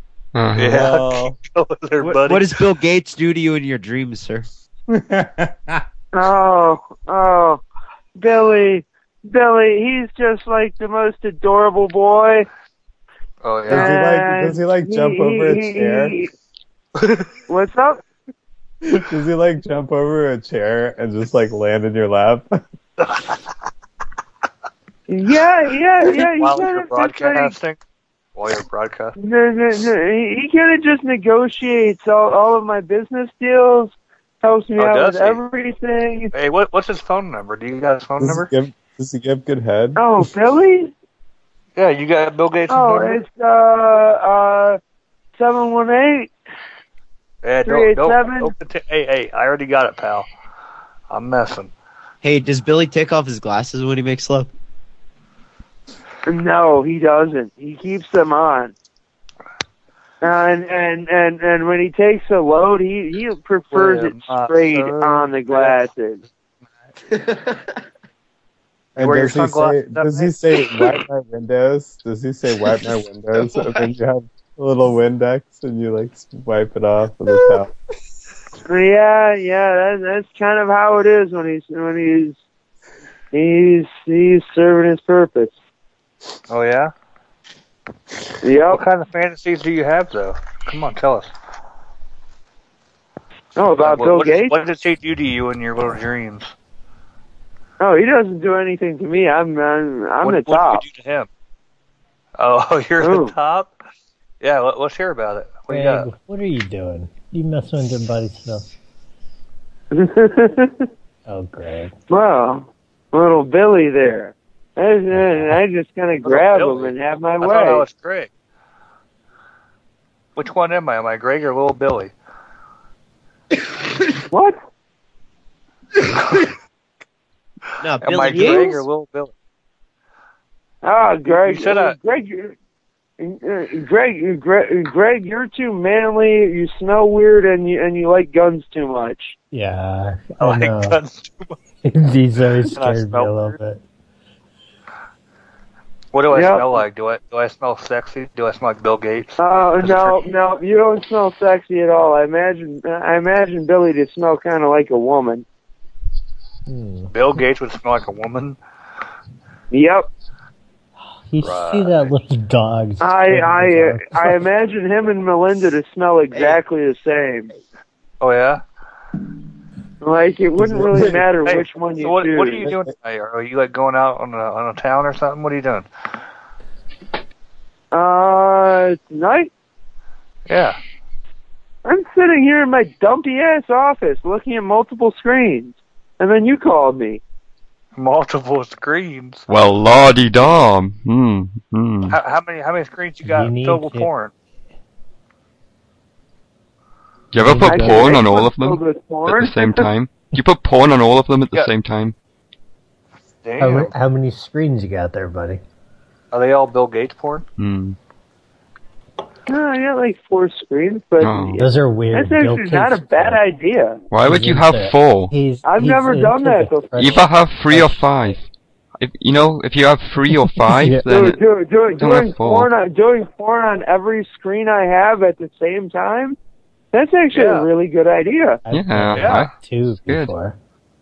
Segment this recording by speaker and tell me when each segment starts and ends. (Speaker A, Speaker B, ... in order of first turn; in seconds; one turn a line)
Speaker A: 0.3-0.8
Speaker B: 0.6-2.5
Speaker C: 0.7-1.4
Speaker D: 2.2-4.5
Speaker C: 4.9-5.7
Speaker E: 6.1-7.6
Speaker E: 8.2-12.5
Speaker B: 13.4-14.1
Speaker C: 13.7-16.1
Speaker E: 13.7-16.3
Speaker E: 17.5-18.0
Speaker C: 18.8-22.5
Speaker B: 23.1-23.3
Speaker E: 25.1-27.5
Speaker B: 26.1-27.8
Speaker B: 28.4-29.1
Speaker E: 29.2-36.3
Speaker B: 34.8-35.4
Speaker B: 36.3-38.5
Speaker C: 38.2-40.3
Speaker E: 40.0-40.9
Speaker B: 41.8-43.2
Speaker E: 42.7-44.8
Speaker E: 45.4-46.3
Speaker B: 47.4-50.3
Speaker E: 47.6-48.5
Speaker B: 51.1-51.7
Speaker D: 52.2-54.5
Speaker E: 56.3-58.7
Speaker E: 60.2-66.2
Speaker B: 63.7-65.8
Speaker D: 67.1-67.6
Speaker C: 69.0-77.7
Speaker B: 69.0-70.3
Speaker E: 78.6-82.4
Speaker E: 83.3-85.5
Speaker B: 86.5-86.9
Speaker E: 88.4-88.8
Speaker B: 88.7-91.3
Speaker E: 93.5-94.6
Speaker B: 93.8-96.5
Speaker E: 97.8-100.8
Speaker B: 100.2-101.3
Speaker B: 102.4-103.7
Speaker E: 103.0-103.3
Speaker B: 104.4-106.1
Speaker F: 105.7-108.7
Speaker E: 109.9-110.9
Speaker F: 111.3-111.9
Speaker E: 112.1-117.8
Speaker F: 115.1-115.6
Speaker B: 116.2-118.3
Speaker B: 120.4-122.1
Speaker E: 124.3-124.6
Speaker D: 127.8-128.8
Speaker B: 128.0-129.3
Speaker E: 130.8-132.6
Speaker B: 131.3-132.0
Speaker E: 133.2-139.4
Speaker F: 139.5-141.0
Speaker B: 140.4-141.6
Speaker F: 141.8-143.8
Speaker B: 142.7-143.6
Speaker B: 146.1-150.2
Speaker E: 146.3-146.7
Speaker E: 149.4-155.4
Speaker F: 156.7-157.1
Speaker B: 157.1-158.6
Speaker E: 159.7-160.1
Speaker F: 161.3-164.4
Speaker B: 161.4-162.1
Speaker E: 163.0-167.5
Speaker B: 168.2-168.6
Speaker E: 170.0-172.7
Speaker C: 170.6-171.2
Speaker B: 171.4-175.9
Speaker E: 177.9-179.5
Speaker B: 180.5-180.8
Speaker E: 181.8-187.2
Speaker B: 187.9-189.4
Speaker A: 189.5-192.2
Speaker B: 192.1-194.3
Speaker F: 193.2-194.1
Speaker A: 197.3-202.1
Speaker F: 197.4-198.1
Speaker E: 197.6-199.9
Speaker B: 203.4-203.9
Speaker F: 203.6-205.6
Speaker B: 206.3-207.4
Speaker A: 207.6-208.0
Speaker E: 209.5-214.0
Speaker A: 211.2-211.6
Speaker F: 211.6-213.4
Speaker A: 214.1-215.3
Speaker F: 214.2-218.3
Speaker E: 215.6-216.9
Speaker A: 216.9-218.4
Speaker A: 219.0-221.4
Speaker F: 220.6-221.1
Speaker E: 221.1-226.4
Speaker A: 221.9-222.7
Speaker E: 226.9-228.6
Speaker B: 227.3-227.7
Speaker F: 228.6-230.6
Speaker A: 228.7-229.5
Speaker B: 229.1-229.5
Speaker A: 230.1-230.3